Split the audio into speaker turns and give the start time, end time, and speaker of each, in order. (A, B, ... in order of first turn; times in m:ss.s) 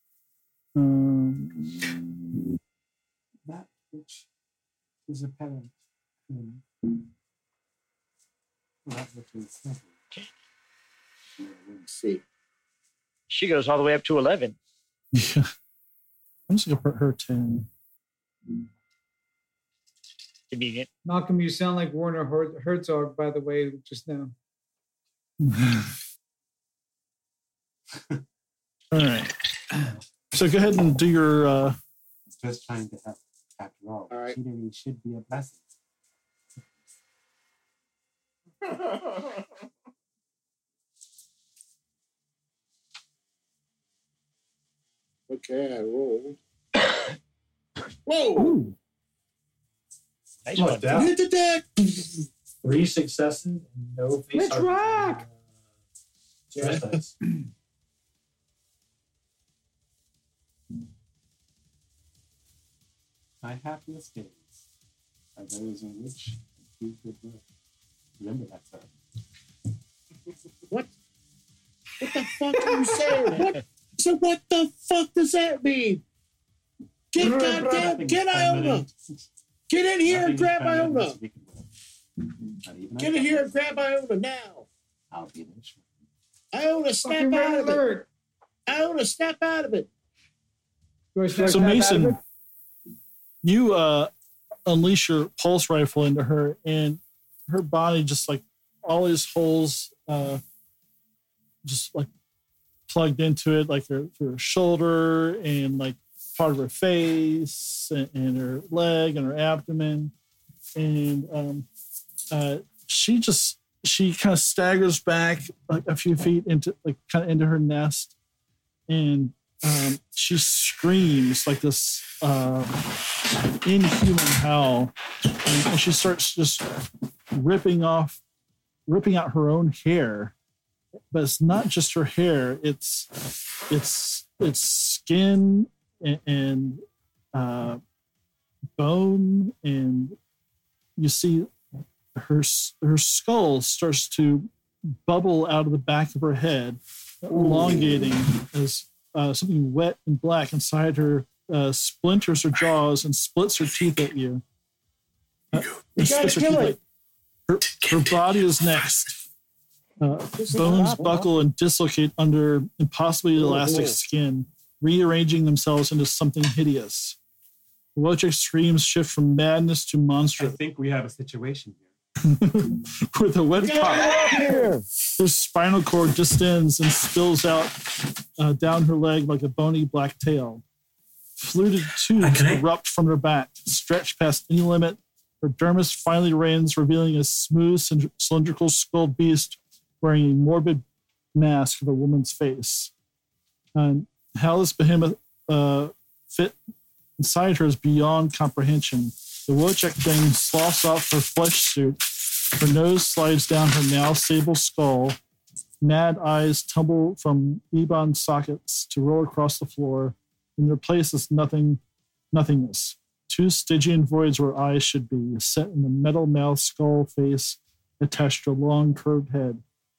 0:00.8-0:02.4 A
0:03.4-0:04.2 B
0:05.1-0:05.7 B
0:06.3-0:06.6 B
0:08.8-0:09.9 B
0:11.4-0:11.8 B
0:11.8-0:12.2 C
0:13.3-0:14.6 D
0:15.1-0:15.5 A
0:16.5-0:17.7 A
0:20.5-0:20.9 D
0:21.0-0:24.3 E
0:25.4-0:25.9 A
0:28.9-0:29.3 A
0:30.3-0:31.8 A
0:32.3-0:35.6 B
0:34.1-0:34.4 C
0:45.3-0:46.4 C
0:48.0-0:48.6 C
0:48.4-0:48.7 A
0:50.4-0:51.1 D
0:50.5-0:51.2 F
0:50.9-0:51.9 C
0:52.6-0:55.3 F
0:54.3-0:55.2 E
0:56.5-0:57.1 F
0:56.5-0:57.1 C
1:03.4-1:04.4 B
1:05.4-1:07.4 B
1:08.2-1:08.9 B
1:12.0-1:16.0 C
1:17.1-1:18.9 C
1:17.2-1:17.6 E
1:17.4-1:18.9 B
1:19.7-1:21.2 C
1:20.0-1:21.7 B
1:22.6-1:23.5 B
1:23.0-1:24.7 C
1:25.1-1:25.8 B
1:26.5-1:27.8 C
1:27.0-1:28.1 E
1:28.6-1:29.9 C
1:31.1-1:32.2 E
1:31.4-1:32.2 A
1:33.4-1:34.1 A
1:34.6-1:40.4 A
1:41.6-1:42.1 A
1:42.9-1:50.1 A
1:50.8-1:51.7 A
1:52.3-1:58.1 A
1:58.9-2:06.7 A
2:07.3-2:08.2 A
2:08.9-2:10.3 A
2:11.1-2:16.8 A
2:17.3-2:17.8 A
2:18.8-2:20.2 A
2:21.0-2:21.5 A
2:22.1-2:34.4 A
2:27.3-2:27.9 C
2:35.5-2:36.8 A
2:36.0-2:36.8 C
2:37.5-2:39.2 A
2:40.0-2:47.2 A
2:40.4-2:41.4 C
2:43.4-2:44.0 C
2:47.9-2:50.6 A
2:50.4-2:51.9 B
2:52.2-2:54.4 A
2:53.6-2:54.8 C
2:55.2-3:00.6 A
3:01.4-3:10.8 A
3:02.2-3:02.6 B
3:11.3-3:12.9 A
3:13.7-3:16.6 A
3:17.2-3:25.2 A
3:25.8-3:31.8 A
3:32.3-3:39.6 A